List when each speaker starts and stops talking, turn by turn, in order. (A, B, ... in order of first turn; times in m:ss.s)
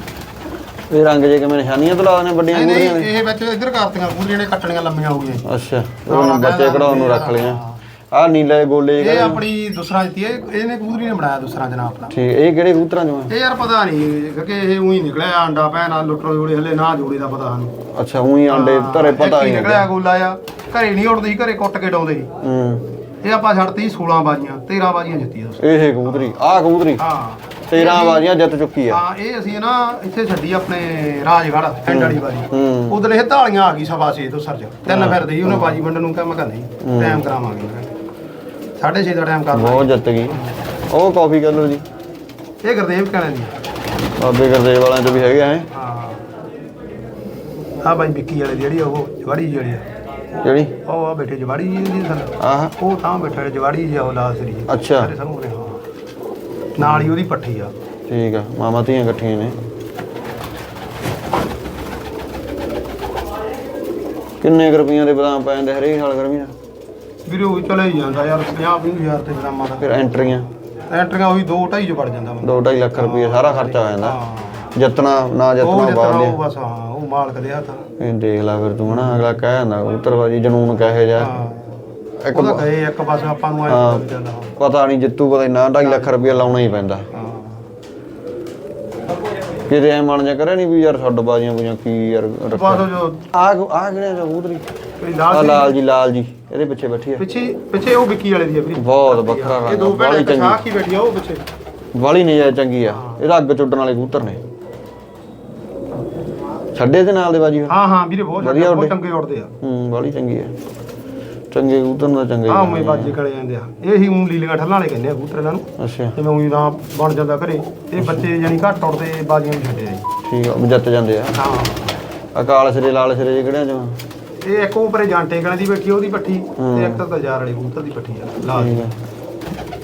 0:00.9-0:03.1 A
0:02.5-0:05.4 B
0:05.4-0:07.6 A
0:06.1-0:07.8 B
0:08.1-0:09.4 A
0:09.0-0:12.1 B
0:12.1-0:13.3 A
0:13.3-0:17.7 B
0:17.9-0:19.9 A
0:18.5-0:22.3 B
0:22.4-0:22.8 A
0:23.2-0:26.4 B
0:25.6-0:27.0 A
0:27.0-0:28.3 B
0:27.7-0:29.0 A
0:28.9-0:37.9 B
0:31.9-0:33.0 A
0:34.9-0:35.8 A
0:36.8-0:37.2 A
0:38.8-0:40.6 B
0:39.5-0:40.4 A
0:40.9-0:41.8 A
0:42.6-0:43.5 B
0:44.2-0:45.7 A
0:45.7-0:46.2 B
0:47.8-0:49.8 B
0:50.4-0:50.7 A
0:50.8-0:55.8 B
0:52.4-0:52.7 A
0:54.7-0:55.1 A
0:56.8-0:57.7 B
0:56.8-0:57.1 A
0:58.1-0:59.6 A
1:04.4-1:06.5 A
1:07.3-1:09.9 B
1:09.8-1:10.4 A
1:10.9-1:14.7 B
1:12.4-1:14.2 A
1:14.8-1:16.4 A
1:15.6-1:17.8 B
1:18.0-1:21.3 A
1:18.9-1:19.2 B
1:21.2-1:24.5 B
1:22.2-1:22.6 A
1:23.7-1:24.0 A
1:24.6-1:27.0 A
1:25.8-1:26.6 B
1:27.1-1:27.6 B
1:29.7-1:34.7 A
1:32.5-1:33.2 B
1:35.0-1:35.8 B
1:35.3-1:37.2 A
1:37.2-1:41.4 B
1:38.8-1:40.6 A
1:41.9-1:44.4 A
1:42.9-1:43.2 B
1:46.7-1:47.7 A
1:47.7-1:49.5 B
1:48.4-1:48.9 A
1:49.6-1:50.5 A
1:51.5-1:53.2 A
1:52.5-2:00.0 B
1:55.8-1:56.1 A
1:58.0-1:58.3 A
2:00.2-2:01.4 A
2:01.3-2:01.9 B
2:02.3-2:04.0 A
2:04.4-2:08.8 B
2:06.6-2:07.0 A
2:08.5-2:08.9 A